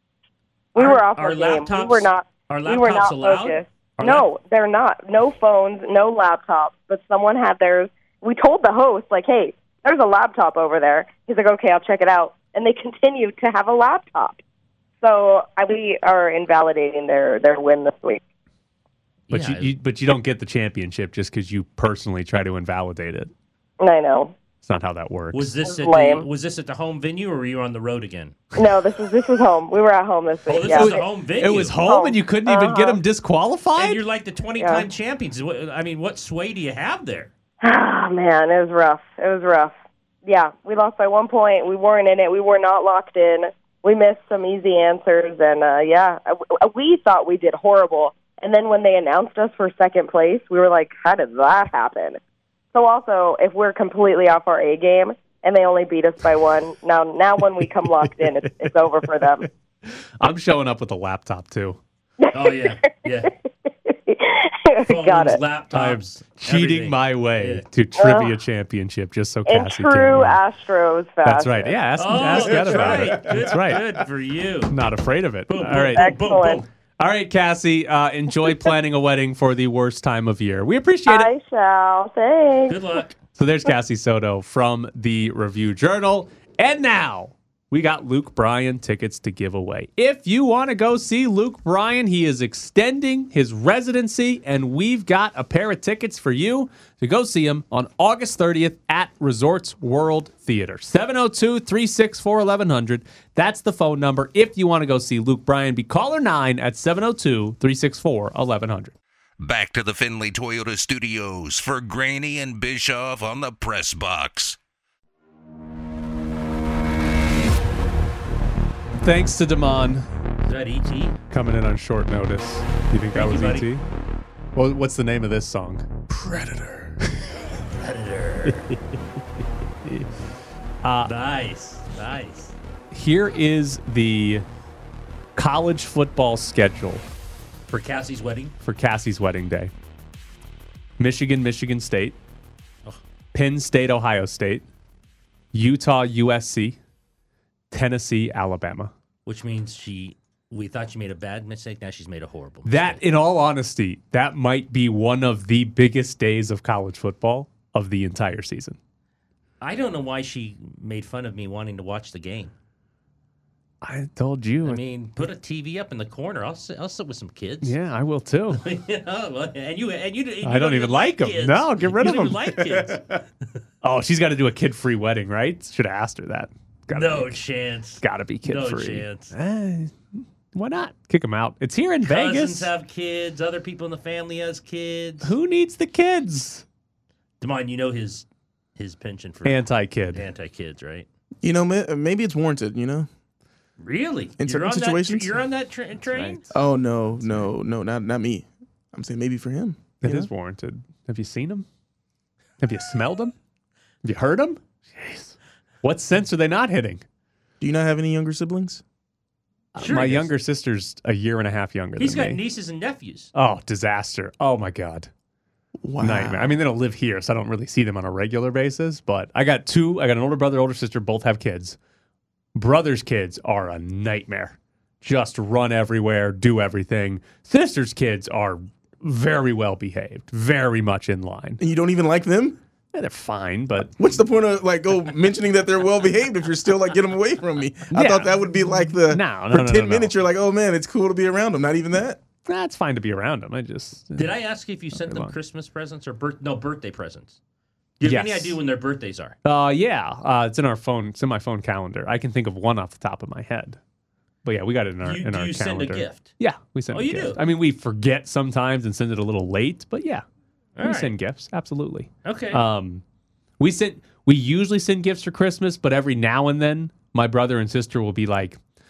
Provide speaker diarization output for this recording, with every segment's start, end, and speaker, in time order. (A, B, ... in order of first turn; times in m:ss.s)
0:00.7-0:14.4 A
0:00.8-0:04.3 B
0:15.0-0:18.2 A
0:19.3-0:19.7 B
0:19.3-0:23.3 C
0:23.8-0:24.4 A
0:24.6-0:25.5 C
0:25.3-0:28.4 B
0:25.7-0:26.3 A
0:28.6-0:31.0 A
0:30.4-0:31.8 B
0:30.7-0:34.0 C
0:31.8-0:33.0 A
0:33.8-0:37.3 B
0:34.6-0:34.8 A
0:37.6-0:39.7 A
0:40.2-0:52.2 A
0:52.7-0:59.5 A
0:58.2-0:58.7 C
0:59.9-1:01.8 C
1:02.2-1:02.9 A
1:02.3-1:03.3 B
1:03.7-1:05.4 A
1:04.8-1:07.6 B
1:05.7-1:10.4 C
1:08.0-1:08.4 A
1:09.5-1:11.8 A
1:11.2-1:14.0 C
1:12.0-1:14.7 B
1:14.7-1:16.1 C
1:15.5-1:16.7 B
1:15.9-1:16.6 A
1:17.0-1:21.3 C
1:21.1-1:22.8 A
1:22.7-1:23.1 B
1:23.3-1:48.9 C
1:49.4-1:54.6 D
1:59.0-2:00.1 C
2:00.4-2:01.2 B
2:01.3-2:03.8 C
2:03.1-2:03.7 B
2:04.6-2:07.2 C
2:07.8-2:08.7 B
2:08.5-2:09.0 C
2:10.8-2:11.1 C
2:11.0-2:12.5 B
2:12.9-2:14.4 C
2:15.4-2:17.0 C
2:17.7-2:18.5 B
2:18.6-2:19.7 C
2:21.0-2:22.2 C
2:23.3-2:24.7 C
2:25.5-2:26.8 C
2:27.7-2:28.9 C
2:29.2-2:33.0 B
2:32.6-2:38.8 C
2:39.6-2:42.5 B
2:43.8-2:44.8 C
2:44.6-2:47.7 B
2:47.6-2:48.6 C
2:48.5-2:53.6 B
2:50.4-2:53.2 C
2:53.8-2:57.4 C
2:56.9-2:59.3 B
2:58.0-3:02.7 C
3:02.0-3:05.3 B
3:05.2-3:06.6 C
3:07.4-3:09.6 B
3:09.4-3:10.2 C
3:10.1-3:11.1 B
3:11.4-3:13.1 E
3:13.8-3:16.4 B
3:14.4-3:15.4 E
3:16.1-3:16.5 C
3:16.5-3:20.3 E
3:17.2-3:17.5 C
3:20.0-3:21.6 C
3:22.6-3:23.3 C
3:24.0-3:27.0 C
3:27.6-3:28.8 E
3:29.8-3:32.4 C
3:29.8-3:30.3 B
3:32.0-3:33.3 B
3:33.3-3:35.1 C
3:35.8-3:36.6 E
3:36.0-3:41.8 C
3:42.5-3:51.6 C
3:51.6-3:52.6 E
3:52.9-3:53.9 C
3:54.0-4:02.2 E
3:57.9-3:58.4 C
3:59.0-4:00.1 C
4:02.4-4:04.3 C
4:04.2-4:07.4 B
4:04.9-4:05.3 C
4:08.0-4:09.4 B
4:08.0-4:08.6 C
4:09.4-4:13.8 C
4:14.4-4:20.2 C
4:15.0-4:16.3 B
4:16.9-4:17.4 B
4:20.8-4:21.1 B
4:20.8-4:23.0 C
4:22.2-4:22.6 B
4:23.6-4:28.6 C